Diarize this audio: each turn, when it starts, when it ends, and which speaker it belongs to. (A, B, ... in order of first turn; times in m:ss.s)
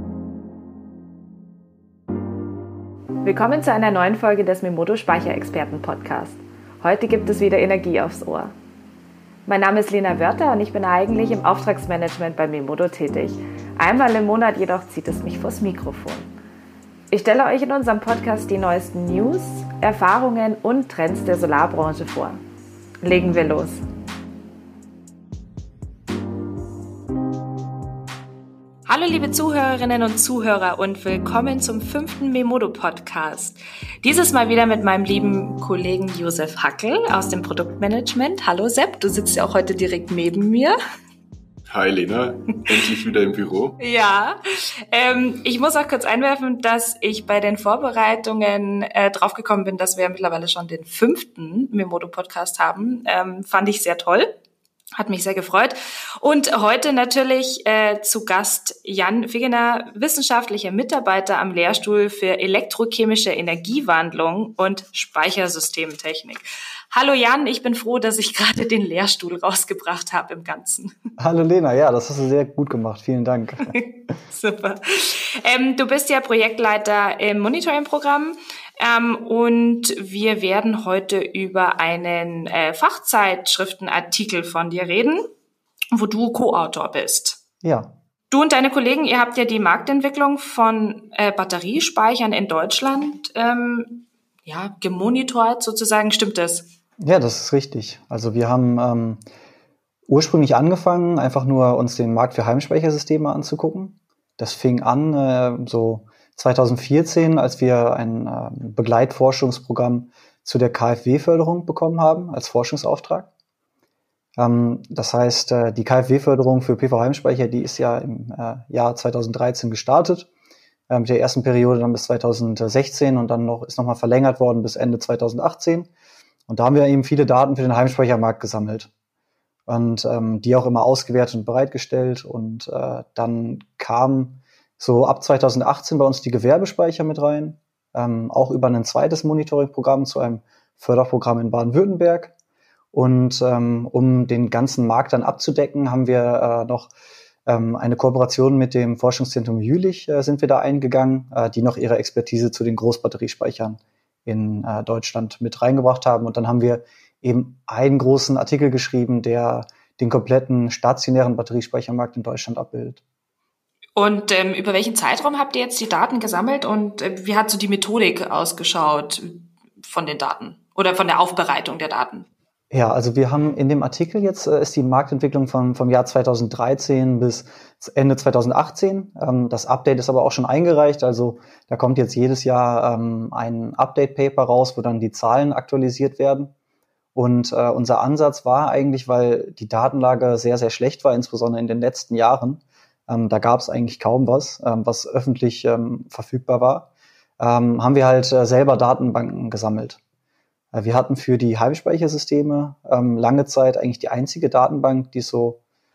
0:03.2-0:08.5 A
0:09.5-0:16.3 A
0:17.1-0:22.4 A
0:23.0-0:23.8 A
0:28.9-0:40.8 A
0:41.7-0:43.8 B
0:43.8-0:44.4 A
0:44.9-0:54.3 A
0:55.0-1:10.9 A
1:11.2-1:13.7 C
1:13.7-1:25.3 A
1:25.9-1:27.4 A
1:27.6-1:27.9 C
1:28.3-1:36.7 A
1:37.0-1:39.2 C
1:40.1-1:53.3 C
1:54.4-2:00.3 C
2:00.9-2:05.9 C
2:06.5-2:08.9 C
2:09.7-2:22.3 C
2:22.9-2:26.9 C
2:27.5-2:43.0 C
2:44.0-2:52.3 A
2:52.7-3:06.5 C
3:07.2-3:20.0 C
3:20.7-3:25.6 C